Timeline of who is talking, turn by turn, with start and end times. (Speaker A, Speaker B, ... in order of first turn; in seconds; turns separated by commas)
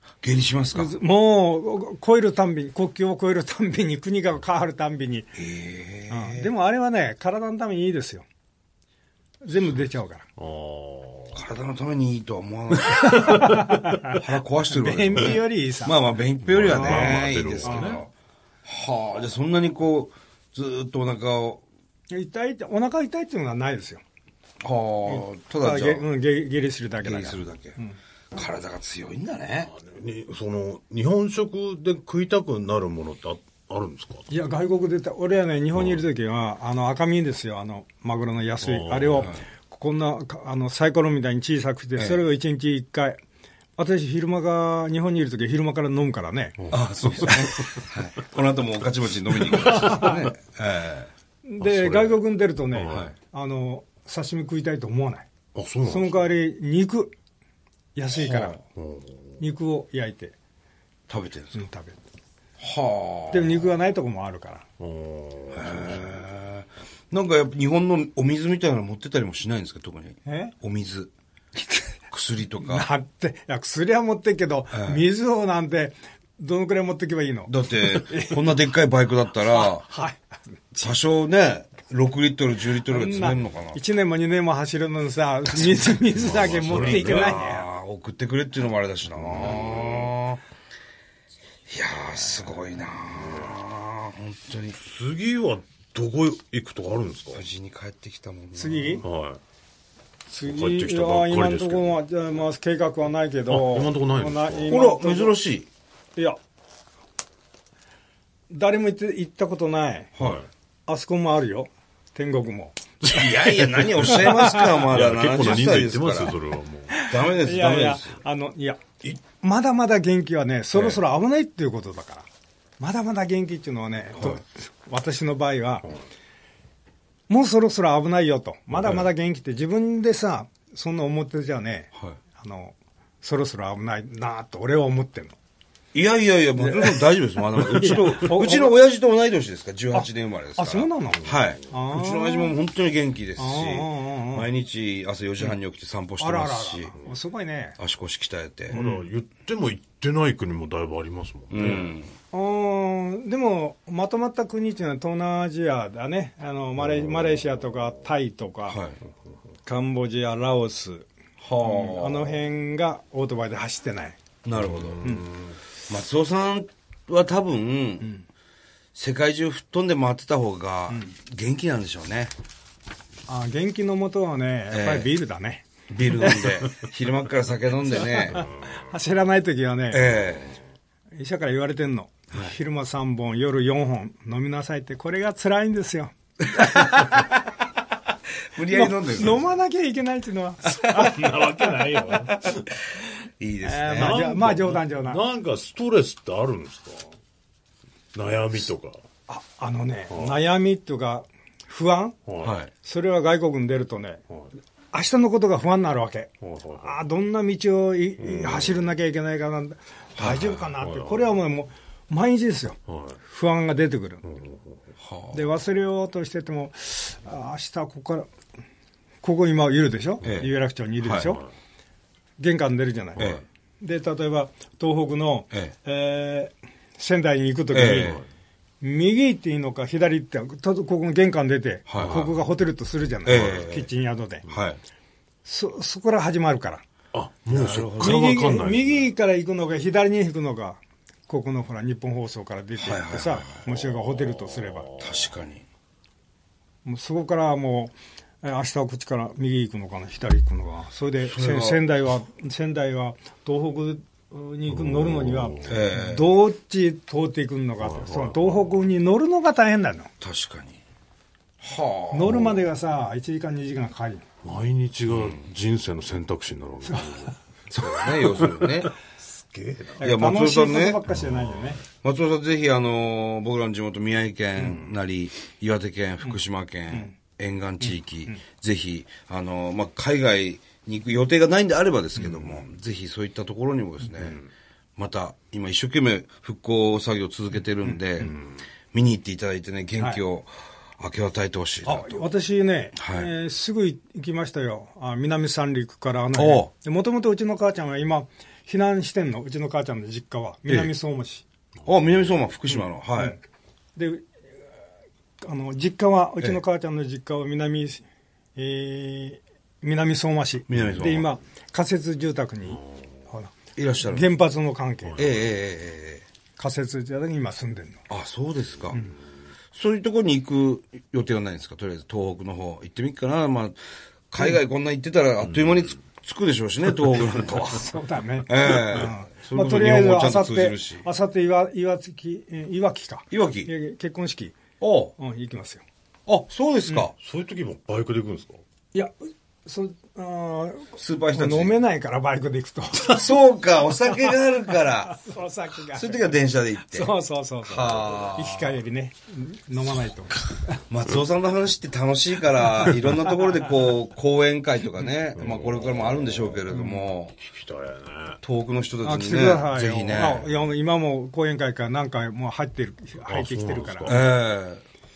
Speaker A: 0.2-1.0, Speaker B: 0.7-5.3, Speaker A: 5.3-6.5, Speaker B: 6.1-8.2, Speaker B: 9.4-10.3, Speaker C: 10.4-11.4, Speaker A: 11.3-13.6, Speaker B: 12.9-16.0, Speaker C: 13.0-13.8, Speaker A: 14.1-18.1, Speaker C: 16.4-18.0, Speaker B: 16.7-18.0, Speaker A: 18.6-21.6, Speaker B: 22.1-24.0, Speaker A: 24.6-26.1, Speaker B: 25.1-28.0, Speaker A: 27.0-27.8, Speaker A: 28.3-29.7, Speaker C: 29.7-34.3, Speaker B: 34.3-43.2, Speaker C: 35.8-36.0, Speaker C: 38.6-39.3, Speaker A: 42.0-42.2, Speaker B: 43.8-46.6, Speaker C: 46.6-47.8, Speaker A: 46.7-51.1, Speaker C: 49.5-50.1, Speaker B: 49.7-50.3, Speaker B: 51.5-55.3, Speaker C: 51.6-52.2, Speaker C: 52.7-53.1, Speaker A: 52.9-53.1, Speaker C: 55.5-56.3, Speaker B: 55.9-57.1, Speaker B: 58.0-58.6, Speaker A: 58.1-58.6, Speaker C: 58.8-59.4, Speaker B: 59.4-60.3, Speaker A: 61.1-61.6, Speaker B: 61.5-62.0, Speaker A: 62.6-63.6, Speaker B: 63.3-64.7, Speaker C: 64.8-66.1, Speaker A: 65.5-71.1, Speaker B: 70.2-70.5, Speaker B: 71.6-71.9, Speaker A: 72.1-72.9, Speaker B: 72.6-78.4, Speaker A: 74.7-75.0, Speaker A: 77.5-79.9, Speaker B: 79.5-80.8, Speaker A: 80.8-83.8, Speaker B: 82.9-87.7, Speaker C: 86.2-87.4, Speaker A: 86.3-90.4, Speaker A: 91.7-94.8, Speaker C: 93.2-93.5, Speaker C: 94.8-97.4, Speaker A: 97.3-99.1, Speaker B: 98.5-99.0, Speaker C: 99.0-99.4, Speaker B: 100.3-105.4, Speaker C: 100.5-102.0, Speaker C: 103.5-104.8, Speaker A: 104.7-105.7, Speaker B: 108.5-110.1, Speaker A: 110.2-110.4, Speaker C: 110.2-110.5, Speaker B: 110.9-112.8, Speaker C: 113.0-117.0, Speaker A: 113.1-116.4, Speaker B: 114.1-114.8, Speaker B: 116.9-122.3, Speaker A: 117.0-118.2, Speaker A: 120.7-121.0, Speaker B: 122.8-125.9, Speaker B: 127.3-135.4, Speaker A: 135.9-146.9, Speaker B: 136.6-137.0, Speaker B: 137.6-138.8, Speaker B: 139.9-142.6, Speaker B: 143.4-144.5, Speaker B: 146.2-147.8, Speaker A: 147.8-148.8, Speaker B: 148.7-149.1, Speaker C: 148.7-151.9, Speaker A: 151.5-152.1, Speaker B: 152.3-158.8, Speaker C: 157.1-157.4, Speaker A: 158.7-159.0, Speaker B: 159.7-161.1, Speaker A: 161.4-162.4, Speaker B: 161.6-164.2, Speaker A: 164.4-165.1, Speaker C: 164.6-165.5, Speaker B: 165.0-165.3, Speaker A: 165.9-168.1, Speaker A: 168.9-172.3, Speaker B: 173.3-176.5, Speaker A: 174.7-175.1, Speaker A: 175.9-178.5, Speaker B: 178.0-180.1, Speaker A: 179.9-180.6, Speaker B: 181.2-187.3, Speaker A: 188.5-189.5, Speaker B: 188.7-191.6, Speaker C: 190.9-192.7, Speaker A: 193.4-194.2, Speaker B: 193.6-195.2, Speaker C: 193.9-197.1, Speaker C: 198.1-199.0, Speaker B: 199.3-202.2, Speaker C: 200.1-200.4, Speaker C: 202.3-202.6, Speaker A: 202.4-202.7, Speaker B: 202.8-204.2, Speaker B: 204.9-214.2, Speaker C: 206.4-207.0, Speaker C: 208.2-208.9, Speaker C: 210.2-211.3, Speaker C: 212.9-213.2, Speaker C: 214.2-214.8, Speaker A: 215.0-215.4, Speaker B: 215.3-218.3, Speaker B: 219.2-221.4, Speaker A: 220.2-220.5, Speaker A: 221.0-221.4, Speaker B: 222.4-228.2, Speaker A: 223.2-223.4, Speaker A: 227.7-228.2, Speaker C: 227.8-228.2, Speaker B: 228.8-234.5, Speaker A: 231.9-232.3, Speaker C: 232.0-232.3, Speaker A: 233.2-233.9, Speaker A: 234.5-234.8, Speaker B: 235.4-236.8, Speaker C: 237.1-239.1, Speaker A: 237.5-238.4, Speaker B: 238.0-244.9, Speaker A: 242.8-243.6, Speaker C: 243.8-245.2, Speaker A: 245.0-245.7, Speaker B: 246.8-260.1, Speaker A: 251.2-251.8, Speaker C: 254.7-255.8, Speaker A: 255.7-256.4, Speaker C: 257.8-258.8, Speaker A: 260.2-260.8, Speaker A: 261.6-262.6, Speaker B: 262.1-264.2, Speaker C: 264.4-267.4, Speaker A: 265.1-265.4, Speaker A: 267.7-268.9, Speaker C: 268.1-270.0, Speaker B: 270.0-271.8, Speaker A: 270.0-271.0, Speaker C: 271.1-271.7, Speaker A: 272.0-284.4, Speaker A: 285.0-292.2, Speaker B: 291.8-301.4, Speaker A: 293.0-293.3, Speaker A: 296.4-296.7, Speaker A: 301.9-303.4, Speaker B: 302.7-303.4, Speaker B: 304.0-304.3, Speaker B: 305.4-308.0, Speaker B: 308.6-313.5, Speaker A: 310.7-311.3, Speaker A: 313.8-314.3, Speaker B: 314.1-315.3, Speaker C: 315.1-315.4, Speaker A: 315.2-316.2, Speaker B: 316.6-318.0, Speaker A: 318.1-319.1, Speaker A: 319.7-323.8, Speaker A: 324.3-327.9, Speaker B: 327.6-334.6, Speaker A: 328.5-331.1, Speaker A: 333.3-333.7, Speaker A: 334.8-335.1, Speaker B: 335.2-335.8, Speaker A: 336.3-337.1, Speaker C: 337.2-338.6, Speaker B: 339.7-343.3, Speaker A: 341.0-341.8, Speaker A: 343.1-345.2, Speaker B: 344.7-346.4, Speaker A: 345.9-347.1, Speaker B: 346.9-350.8, Speaker A: 347.6-348.8, Speaker A: 350.9-357.4, Speaker C: 355.4-356.8, Speaker B: 356.7-357.1, Speaker C: 357.4-358.4, Speaker A: 358.4-360.4, Speaker B: 359.0-364.3, Speaker C: 363.3-364.3, Speaker A: 364.1-364.8